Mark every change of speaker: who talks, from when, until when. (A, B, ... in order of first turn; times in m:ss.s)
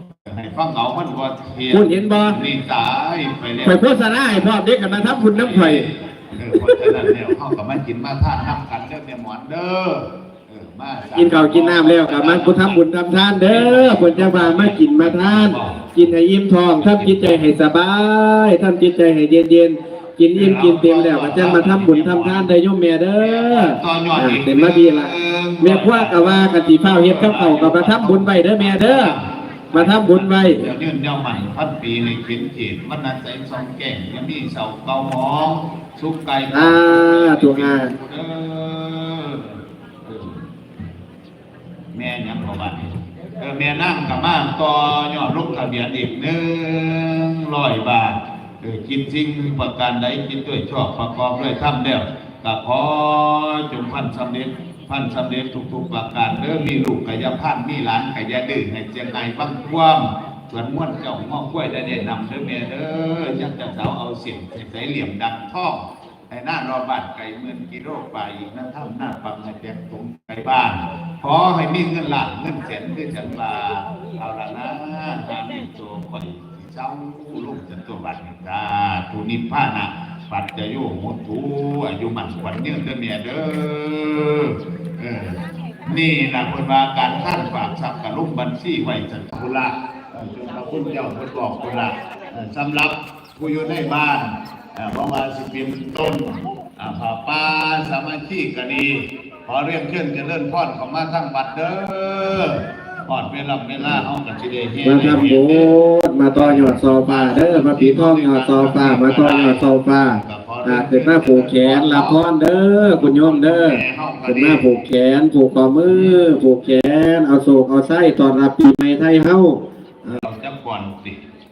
0:00.2-0:12.8 A
0:01.7-0:02.4 B
0:03.6-0:05.8 B
0:06.5-0:07.1 B
0:11.1-0:29.1 B
0:13.3-0:16.1 A
0:16.8-0:17.4 A
0:20.3-0:22.5 A
0:23.2-0:40.4 A
0:29.7-0:30.7 B
0:36.5-0:37.9 B
0:41.9-1:45.7 A
1:43.8-1:44.1 B
1:44.8-2:00.2 B
1:46.3-1:54.8 A
1:55.8-1:56.3 A
2:00.0-2:01.2 A